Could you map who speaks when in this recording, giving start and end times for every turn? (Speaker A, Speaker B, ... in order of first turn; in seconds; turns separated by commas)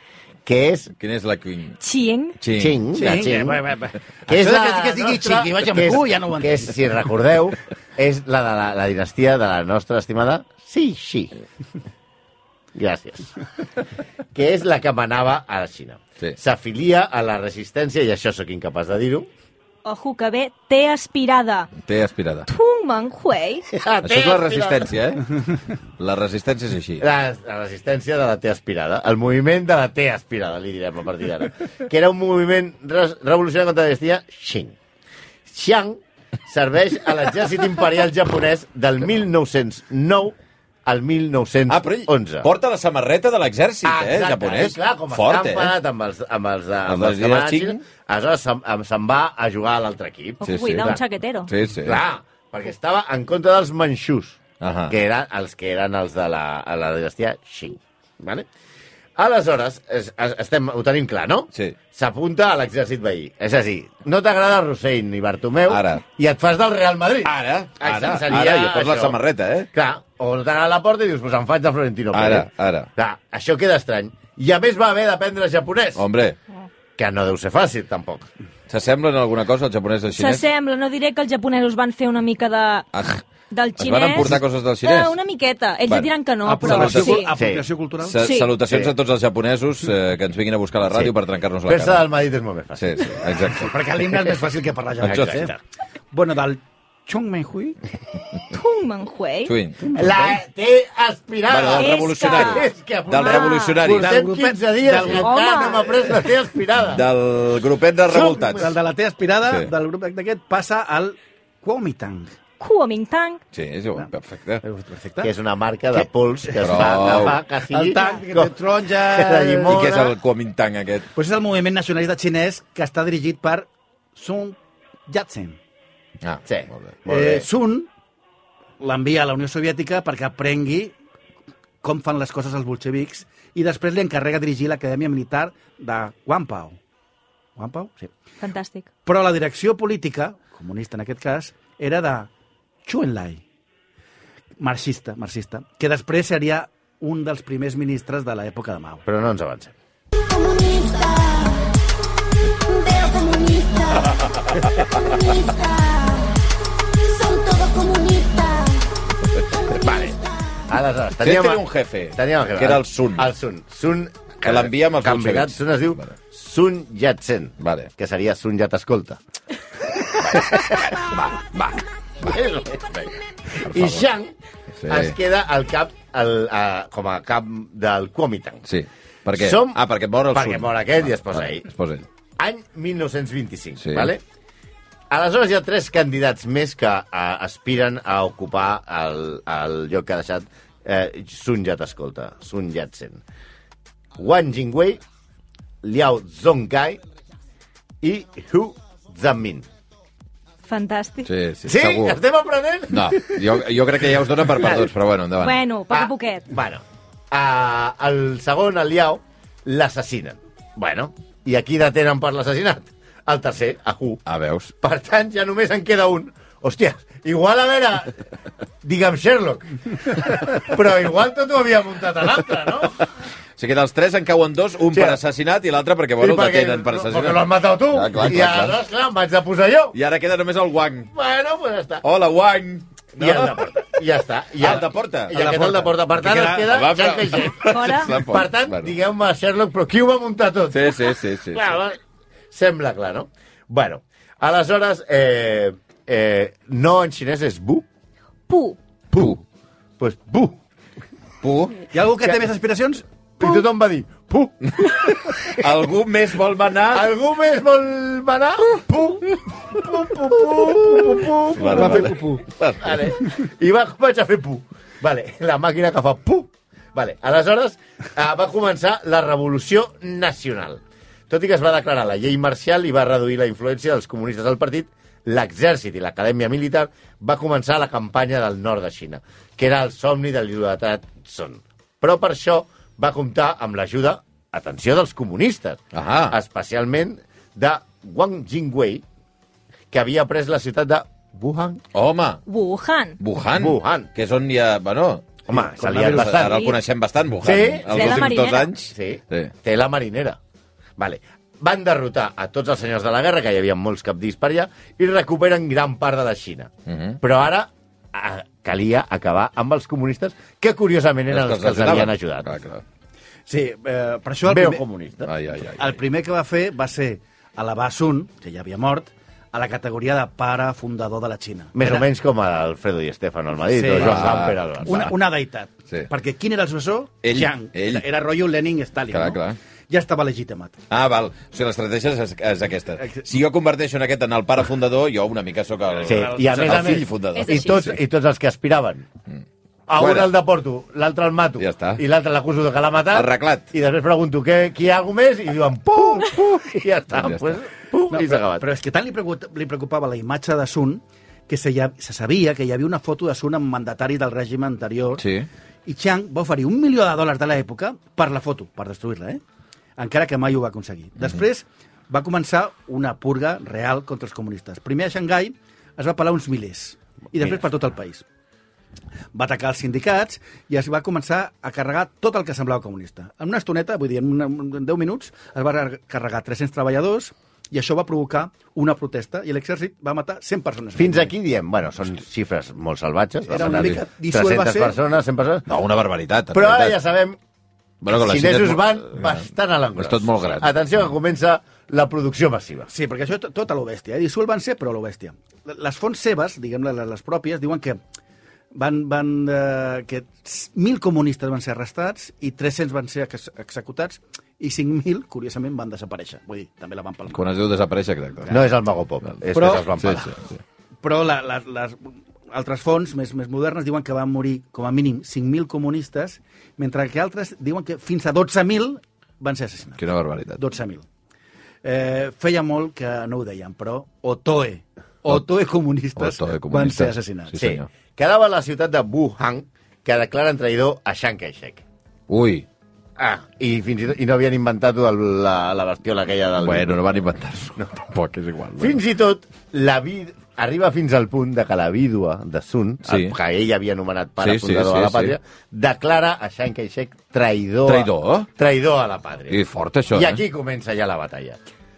Speaker A: 0.4-0.9, Speaker B: 1.0-1.8, Speaker C: 1.8-2.4, Speaker B: 2.4-2.8, Speaker A: 2.5-3.6, Speaker D: 2.9-6.9, Speaker A: 4.3-11.3, Speaker A: 12.7-13.3, Speaker A: 14.3-19.3, Speaker C: 19.8-21.7, Speaker B: 21.8-22.5, Speaker C: 22.5-23.7, Speaker A: 23.7-24.9, Speaker B: 24.0-27.1, Speaker A: 27.0-34.8, Speaker A: 35.5-42.5, Speaker B: 41.7-45.7, Speaker A: 43.8-51.0, Speaker B: 46.9-47.8, Speaker C: 50.4-51.5, Speaker B: 50.4-52.0, Speaker A: 51.8-58.5, Speaker B: 54.6-55.0, Speaker A: 59.1-69.2, Speaker B: 65.7-66.0, Speaker B: 67.2-69.7, Speaker A: 69.7-76.0, Speaker B: 72.1-72.9, Speaker B: 76.0-76.4, Speaker A: 77.0-78.3, Speaker B: 78.7-80.4, Speaker C: 80.1-82.9, Speaker B: 82.9-83.2, Speaker C: 83.5-87.3, Speaker B: 83.8-85.2, Speaker B: 85.9-87.2, Speaker D: 86.4-88.2, Speaker A: 87.3-87.6, Speaker B: 88.0-92.0, Speaker C: 88.2-88.6, Speaker A: 88.6-88.9, Speaker A: 91.7-93.4, Speaker B: 92.8-93.8, Speaker D: 93.4-95.5, Speaker B: 95.0-95.5, Speaker A: 95.0-95.6, Speaker D: 96.1-97.8, Speaker C: 98.5-99.5, Speaker B: 99.5-99.8, Speaker D: 99.8-100.4, Speaker A: 99.9-107.0, Speaker B: 101.5-104.2, Speaker C: 101.7-103.8, Speaker D: 103.8-105.3, Speaker C: 105.0-106.1, Speaker B: 106.8-108.7, Speaker A: 108.1-108.7, Speaker D: 108.5-112.3, Speaker C: 112.6-113.4, Speaker B: 113.5-114.6, Speaker D: 114.6-115.3, Speaker A: 115.2-120.2, Speaker D: 115.9-119.9, Speaker B: 116.6-117.4, Speaker B: 119.7-121.1, Speaker D: 121.1-125.6, Speaker B: 126.2-126.9, Speaker A: 126.5-127.5, Speaker D: 127.0-127.9, Speaker D: 128.8-130.9, Speaker D: 131.8-136.8, Speaker D: 137.6-138.1, Speaker C: 138.4-138.9, Speaker D: 139.0-142.3, Speaker D: 142.8-143.4, Speaker D: 144.6-149.0, Speaker A: 149.1-149.7, Speaker E: 150.4-151.5, Speaker E: 152.9-153.9, Speaker E: 155.7-156.2, Speaker C: 157.2-158.2, Speaker E: 157.3-158.8, Speaker A: 159.7-169.2, Speaker B: 161.2-163.3, Speaker B: 164.4-166.1, Speaker B: 167.6-167.9, Speaker A: 170.2-171.3, Speaker B: 170.4-171.8, Speaker A: 172.2-174.3, Speaker B: 173.6-174.0, Speaker B: 174.8-175.1, Speaker A: 174.8-178.7, Speaker B: 178.7-182.1, Speaker A: 179.3-181.7, Speaker A: 182.4-184.2, Speaker B: 183.8-184.1, Speaker A: 185.1-193.2, Speaker A: 194.2-195.0, Speaker A: 195.8-197.0, Speaker A: 198.0-199.7, Speaker C: 200.7-201.3, Speaker B: 201.2-202.2, Speaker A: 201.6-203.6, Speaker B: 202.9-205.6, Speaker C: 205.4-206.5, Speaker A: 205.9-214.2, Speaker B: 214.2-214.7, Speaker A: 214.8-218.2, Speaker A: 218.8-223.1, Speaker B: 223.6-228.8, Speaker A: 224.9-225.2, Speaker A: 226.2-229.9, Speaker B: 229.9-231.1, Speaker A: 231.1-232.0, Speaker B: 232.0-233.6, Speaker A: 233.2-242.0, Speaker B: 234.6-238.9, Speaker D: 236.1-236.7, Speaker C: 237.7-238.2, Speaker B: 240.7-241.7, Speaker A: 242.5-247.8, Speaker C: 248.5-248.8, Speaker A: 249.1-249.4, Speaker A: 250.0-250.6, Speaker B: 251.4-251.9, Speaker D: 251.9-253.0, Speaker A: 253.4-255.6, Speaker B: 254.8-257.1, Speaker A: 256.9-262.2, Speaker B: 261.5-263.1, Speaker D: 261.6-262.4, Speaker A: 262.8-289.0, Speaker B: 285.9-286.4, Speaker A: 289.9-291.8, Speaker B: 291.9-292.4, Speaker C: 292.4-293.2, Speaker B: 293.2-295.4, Speaker A: 293.5-294.1, Speaker A: 295.5-296.7, Speaker D: 295.5-296.4, Speaker B: 295.9-299.5, Speaker C: 296.4-296.8, Speaker A: 297.4-298.3, Speaker C: 297.9-298.7, Speaker A: 298.9-300.4, Speaker A: 301.0-312.6, Speaker B: 306.9-307.2, Speaker B: 311.3-312.8, Speaker D: 313.5-314.8, Speaker A: 314.4-315.3, Speaker B: 315.2-316.0, Speaker D: 315.8-322.1, Speaker A: 321.7-325.1, Speaker D: 323.7-330.8, Speaker B: 323.9-325.1, Speaker B: 327.2-328.0, Speaker B: 329.1-329.6, Speaker B: 330.9-338.0, Speaker A: 336.0-339.1, Speaker C: 337.3-337.9, Speaker A: 339.9-348.6, Speaker B: 340.0-340.3, Speaker B: 341.6-342.0, Speaker B: 343.1-343.6, Speaker B: 347.1-347.5, Speaker D: 348.1-355.2, Speaker B: 355.2-355.5, Speaker D: 355.9-359.4, Speaker D: 360.0-368.2, Speaker D: 369.3-381.3, Speaker A: 380.9-385.7, Speaker D: 383.5-385.0, Speaker B: 385.7-387.0, Speaker A: 386.5-387.4, Speaker B: 388.0-389.4, Speaker A: 388.0-392.9, Speaker B: 390.0-390.7, Speaker D: 392.9-398.0, Speaker D: 398.7-407.4, Speaker B: 407.3-408.6, Speaker A: 408.5-410.3, Speaker D: 409.5-409.9, Speaker B: 409.9-410.6, Speaker D: 411.0-421.1, Speaker B: 420.0-420.6, Speaker D: 421.8-427.6, Speaker B: 426.2-427.9, Speaker A: 427.6-431.8, Speaker B: 432.3-432.6, Speaker A: 433.2-437.0, Speaker B: 436.6-439.0, Speaker A: 438.8-451.6, Speaker B: 443.0-443.4, Speaker B: 444.4-445.3, Speaker B: 447.9-448.5, Speaker B: 449.5-450.4